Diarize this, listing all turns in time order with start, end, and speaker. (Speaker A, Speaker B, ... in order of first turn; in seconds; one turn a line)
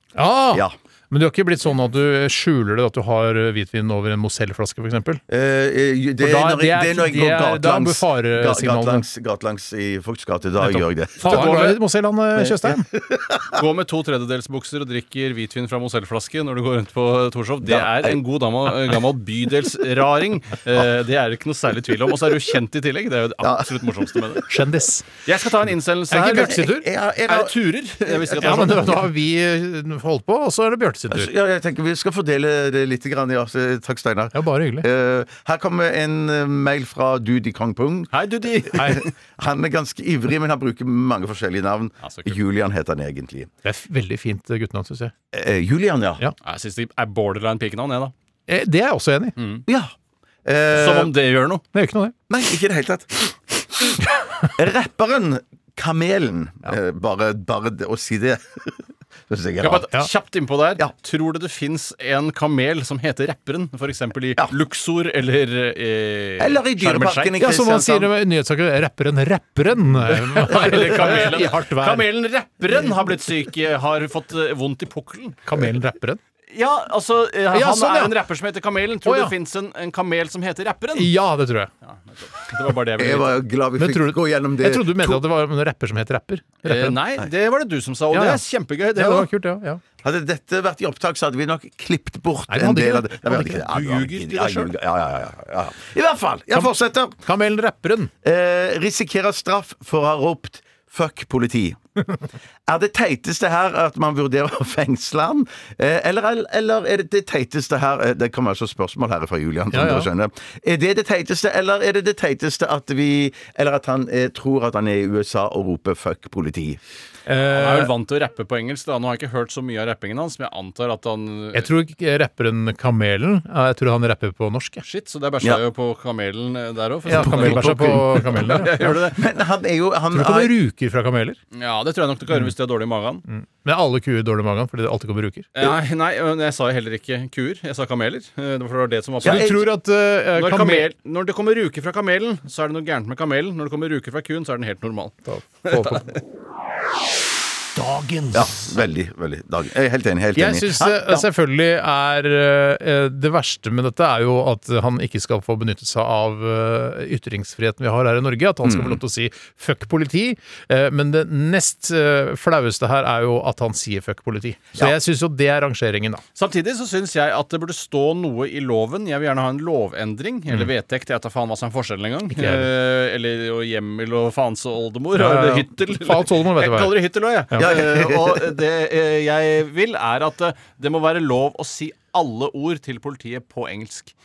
Speaker A: 0.1-5.2
Speaker B: 5.3-11.6
Speaker A: 6.2-9.1
Speaker A: 10.6-12.9
Speaker C: 11.2-11.8
Speaker B: 12.4-13.6
Speaker C: 13.5-24.5
Speaker B: 17.6-18.2
Speaker B: 23.4-24.4
Speaker A: 24.5-25.1
Speaker C: 25.2-26.7
Speaker A: 26.1-26.9
Speaker B: 26.3-28.8
Speaker C: 27.3-29.1
Speaker A: 28.4-31.3
Speaker B: 31.1-38.1
Speaker A: 34.3-34.9
Speaker C: 38.1-39.1
Speaker B: 38.6-43.5
Speaker A: 38.7-39.0
Speaker C: 42.0-42.4
Speaker A: 43.6-45.1
Speaker B: 45.3-46.2
Speaker C: 46.4-48.1
Speaker A: 48.5-49.4
Speaker C: 49.4-49.6
Speaker B: 49.7-49.9
Speaker B: 50.5-51.1
Speaker C: 50.7-51.6
Speaker A: 51.7-52.1
Speaker B: 52.3-59.9
Speaker C: 59.6-67.4
Speaker B: 66.4-68.1
Speaker A: 67.4-72.1
Speaker C: 70.1-75.4
Speaker A: 75.5-76.2
Speaker C: 76.5-81.1
Speaker A: 77.5-78.2
Speaker A: 79.0-79.3
Speaker A: 81.0-81.7
Speaker C: 81.8-83.4
Speaker B: 83.0-85.2
Speaker A: 83.8-87.0
Speaker C: 86.7-89.3
Speaker A: 88.1-88.4
Speaker A: 89.0-89.8
Speaker B: 90.0-97.2
Speaker A: 92.5-93.6
Speaker C: 93.7-94.7
Speaker A: 96.5-98.1
Speaker B: 98.2-101.8
Speaker B: 102.7-116.8
Speaker A: 109.7-110.1
Speaker A: 117.3-117.9
Speaker C: 117.5-121.7
Speaker A: 121.5-124.8
Speaker C: 124.8-129.3
Speaker A: 127.1-129.0
Speaker B: 127.1-130.5
Speaker A: 130.1-131.4
Speaker C: 131.5-133.2
Speaker A: 133.3-135.5
Speaker C: 135.6-139.6
Speaker B: 139.2-139.6
Speaker A: 139.2-140.9
Speaker C: 140.3-146.2
Speaker A: 145.3-146.1
Speaker A: 147.8-148.7
Speaker B: 148.3-151.3
Speaker A: 150.3-166.2
Speaker B: 158.6-159.0
Speaker C: 166.3-184.2
Speaker A: 172.3-172.7
Speaker A: 175.2-177.0
Speaker B: 177.6-178.5